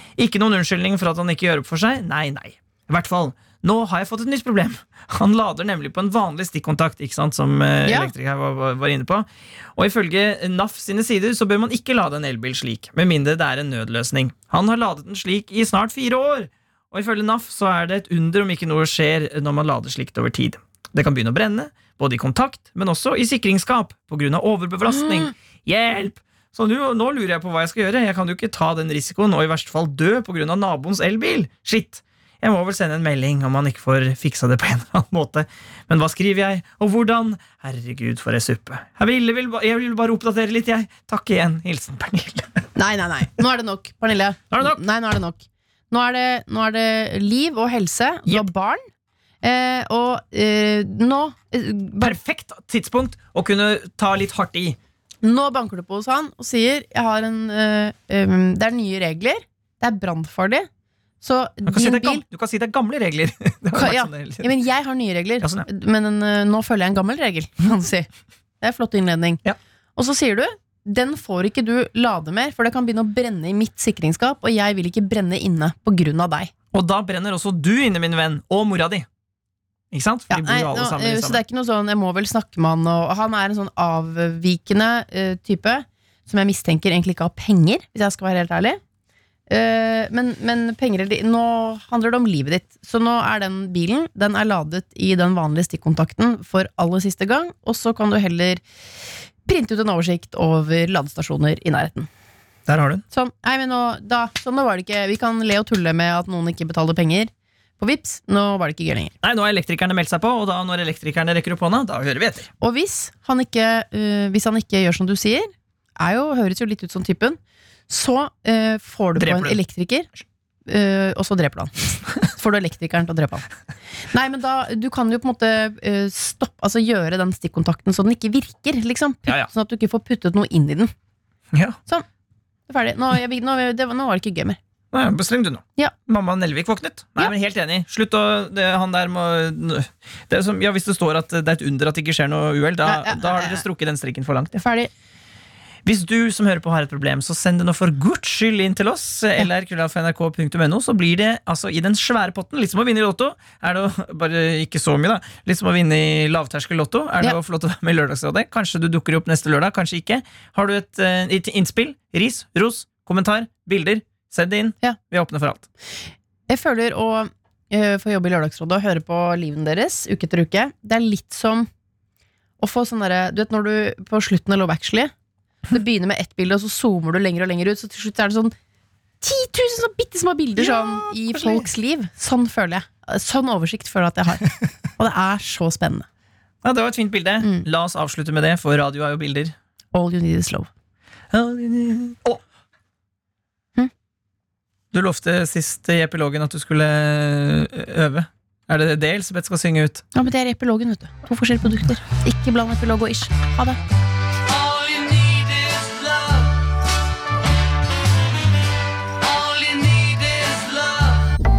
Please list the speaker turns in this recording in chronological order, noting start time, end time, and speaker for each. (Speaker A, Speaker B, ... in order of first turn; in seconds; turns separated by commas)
Speaker A: 0.2-42.6, Speaker B: 7.8-8.1, Speaker B: 42.8-48.8, Speaker A: 44.5-44.8, Speaker B: 49.4-52.2, Speaker A: 52.0-54.8, Speaker B: 55.2-60.7, Speaker B: 61.2-62.2, Speaker A: 61.7-64.5, Speaker B: 63.7-68.1, Speaker A: 65.4-65.7, Speaker B: 68.6-69.4, Speaker B: 70.0-76.5, Speaker A: 76.7-79.1, Speaker A: 79.9-81.4, Speaker B: 80.3-88.8, Speaker B: 89.5-98.6, Speaker B: 99.5-102.1, Speaker A: 102.7-103.0, Speaker B: 103.1-109.1, Speaker A: 109.2-112.5, Speaker B: 112.6-120.1, Speaker A: 119.2-119.6, Speaker B: 120.7-123.5, Speaker B: 124.1-130.9, Speaker B: 132.7-134.6, Speaker A: 134.9-144.6, Speaker B: 142.8-143.6, Speaker B: 144.6-144.9, Speaker A: 145.9-165.7, Speaker B: 166.5-171.7, Speaker B: 172.6-175.1, Speaker B: 175.7-178.5, Speaker B: 179.2-186.1, Speaker A: 180.6-181.7, Speaker A: 186.6-189.5, Speaker B: 189.9-190.7, Speaker A: 191.3-192.4, Speaker A: 194.9-200.0, Speaker B: 200.1-203.8